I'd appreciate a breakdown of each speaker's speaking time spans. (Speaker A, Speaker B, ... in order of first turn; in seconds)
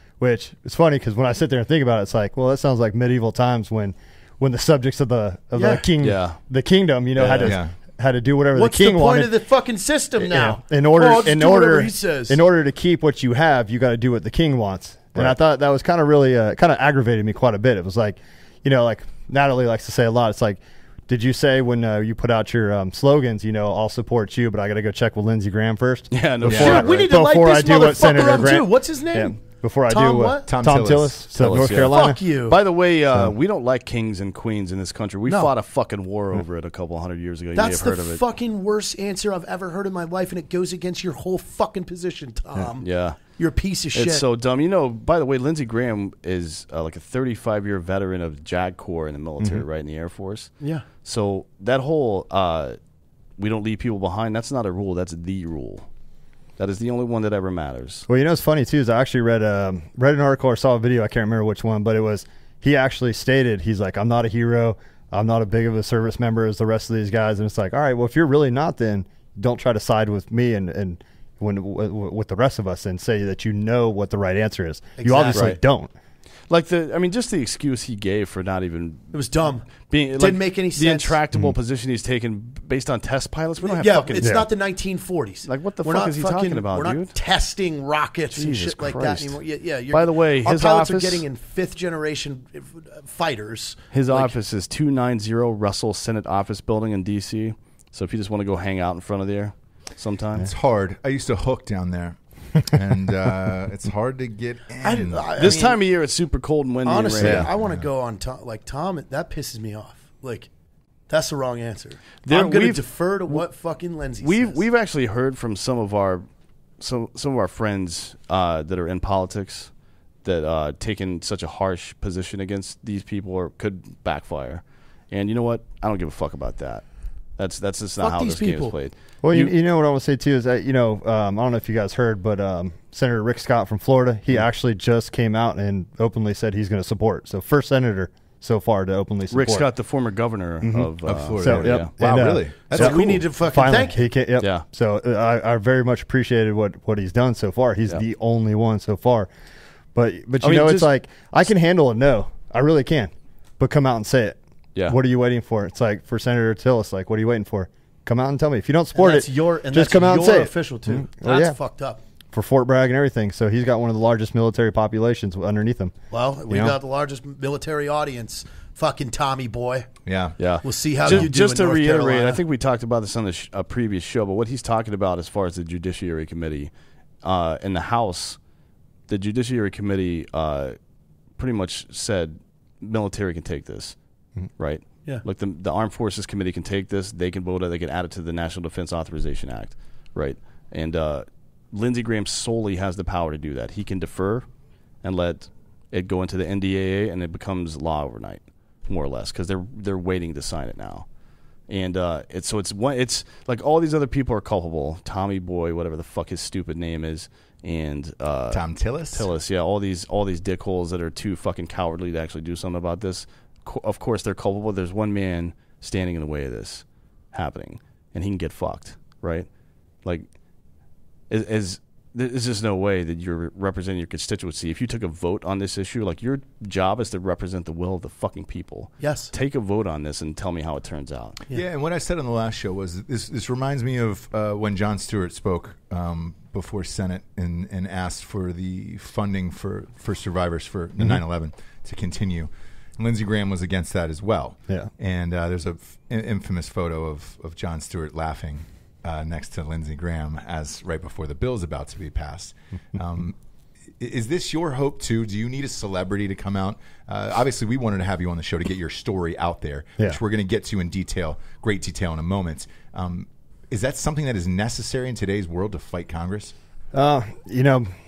Speaker A: 0.2-9.3, 10.2-32.2, 49.4-49.6, 58.1-75.9, 84.2-84.5, 129.2-139.7, 140.6-149.3, 149.9-161.6, 162.3-166.0, 166.5-166.8, 266.9-267.9
Speaker B: 5.5-5.9, 8.6-12.4, 26.5-30.5, 31.6-32.6, 35.3-35.5, 37.5-44.2, 50.6-50.9, 75.0-75.5, 79.1-81.2, 83.6-94.3, 104.8-105.8, 106.8-110.5, 111.1-114.6, 128.0-128.8, 142.7-144.0, 158.9-162.0, 166.1-169.9, 170.6-172.4, 229.0-229.3
Speaker C: 6.0-6.4, 7.2-7.6, 26.1-27.0, 31.3-38.2, 42.8-43.4, 43.9-52.8, 53.4-55.9, 56.6-58.1, 75.3-75.6, 76.5-79.2, 79.9-84.4, 85.4-87.1, 88.3-91.2, 93.9-100.5, 105.4-107.5, 112.2-113.4, 114.2-116.3, 116.8-119.7, 120.2-129.5, 139.3-141.9, 144.4-144.7, 150.4-150.9, 170.4-178.4, 179.1-180.8, 181.4-184.0, 184.6-194.5, 195.0-201.1, 201.7-219.5, 220.0-220.3, 221.3-231.4
Speaker D: 7.4-7.8, 26.5-26.8, 30.5-31.2, 100.4-105.6, 107.2-107.9, 141.0-143.2, 170.1-170.4, 208.5-209.3, 231.5-253.4, 254.0-266.5